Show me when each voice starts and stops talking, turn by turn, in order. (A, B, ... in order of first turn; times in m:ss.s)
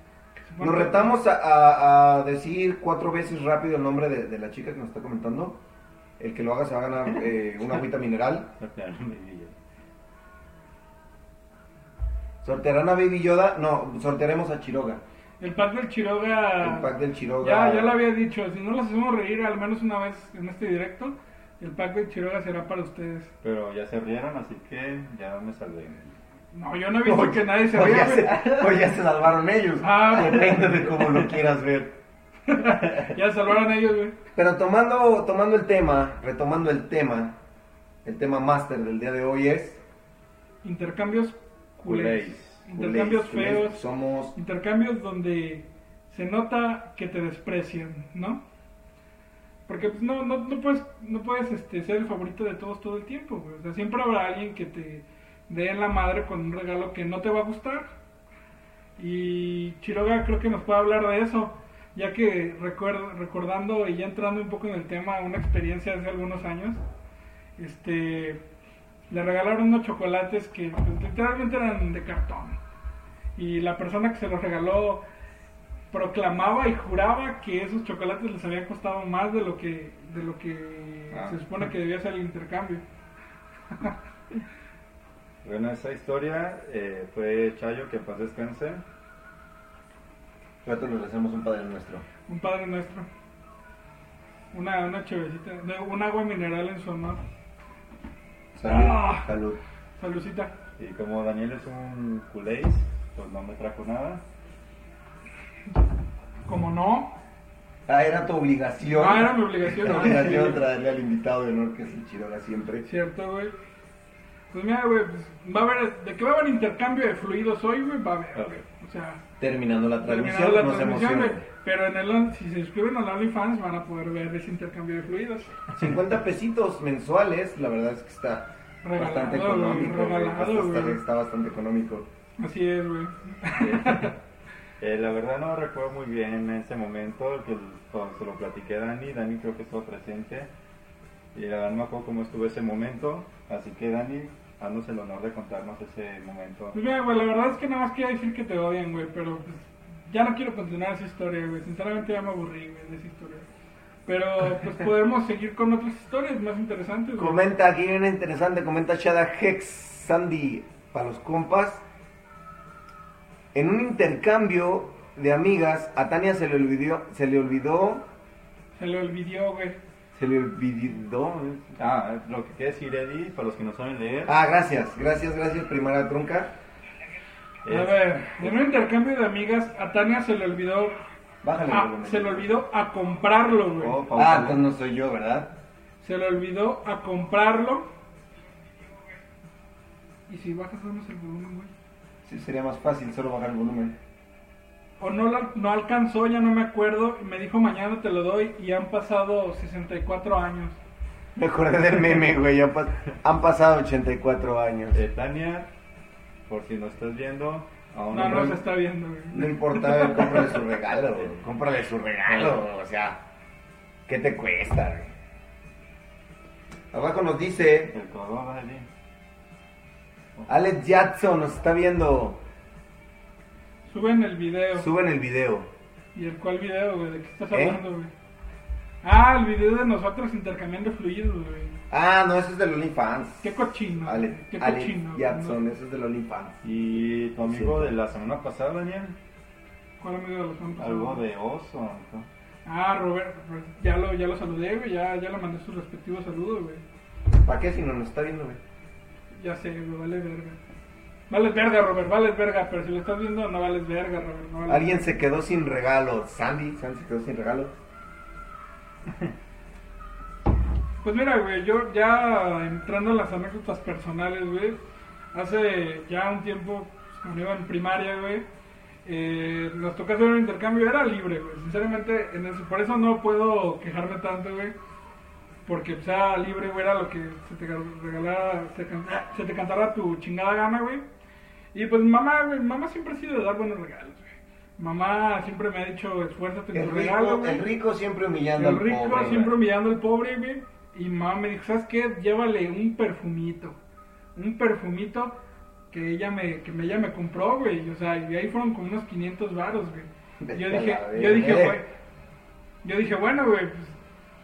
0:00.4-0:01.1 A
0:00.6-0:05.6 B
0:06.2-0:08.5 B
0:08.6-0:09.5 C
0:12.4-0:15.0 B
0:15.4-0:23.3 A
0:16.6-0:18.0 B
0:23.4-0:26.2 C
0:26.5-0:28.5 A
0:27.0-0:32.0 B
0:29.8-0:30.9 A
0:32.5-0:34.2 A
0:34.4-0:37.4 B
0:38.0-0:39.8 B
0:40.6-0:43.8 A
0:41.8-0:42.6 C
0:42.7-0:44.3 B
0:44.3-0:48.4 A
0:49.7-0:57.9 A
0:59.0-1:06.8 A
1:07.6-1:08.4 A
1:09.1-1:12.6 A
1:13.4-1:15.0 A
1:15.9-1:22.8 A
1:21.1-1:21.5 C
1:25.4-1:28.8 C
1:30.6-1:32.0 B
1:32.3-1:33.1 A
1:34.5-1:37.2 A
1:38.5-1:39.6 B
1:38.6-1:39.3 A
1:40.0-1:40.5 A
1:40.8-1:44.2 C
1:46.5-1:47.2 A
1:47.9-1:52.9 B
1:48.9-1:50.6 A
1:52.8-1:53.5 A
1:54.5-1:59.2 A
1:58.3-1:58.6 C
1:59.4-2:01.4 B
2:00.0-2:05.5 A
2:05.8-2:12.1 B
2:08.8-2:11.0 A
2:12.4-2:14.1 A
2:13.6-2:14.2 C
2:14.8-2:20.5 C
2:21.3-2:26.8 C
2:26.7-2:33.4 A
2:34.0-2:37.4 A
2:37.2-2:41.8 B
2:43.5-2:48.1 B
2:48.8-2:49.8 A
2:50.1-2:51.8 B
2:51.8-2:54.4 C
2:54.2-2:56.6 B
2:57.6-2:58.0 C
2:57.7-3:01.0 A
3:01.4-3:02.5 B
3:01.7-3:04.0 A
3:03.8-3:04.6 C
3:04.1-3:05.6 B
3:06.0-3:07.9 A
3:10.3-3:11.7 A
3:12.2-3:14.0 B
3:15.0-3:20.8 A
3:21.4-3:25.0 B
3:24.9-3:25.7 C
3:26.5-3:28.6 C
3:28.1-3:30.4 A
3:29.3-3:33.2 B
3:34.1-3:35.1 B
3:36.9-3:38.0 B
3:37.9-3:38.9 C
3:40.5-3:42.4 B
3:43.9-3:44.9 A
3:44.8-3:45.7 B
3:46.1-3:48.1 A
3:47.5-3:47.8 B
3:49.0-3:51.8 A
3:51.9-3:56.6 B
3:53.4-3:55.6 A
3:56.6-3:59.2 C
3:57.4-3:57.9 B
4:00.0-4:01.2 A
4:00.8-4:02.3 C
4:02.6-4:06.8 A
4:07.4-4:08.6 B
4:09.3-4:10.6 A
4:11.3-4:15.0 A
4:14.7-4:17.8 B
4:21.0-4:24.8 A
4:25.3-4:28.4 A
4:29.0-4:34.8 A
4:35.6-4:41.0 A
4:41.7-4:47.6 A
4:46.7-4:49.5 B
4:48.6-4:53.8 A
4:54.3-4:55.4 A
4:55.9-5:01.9 A
5:00.4-5:01.8 B
5:02.8-5:04.0 A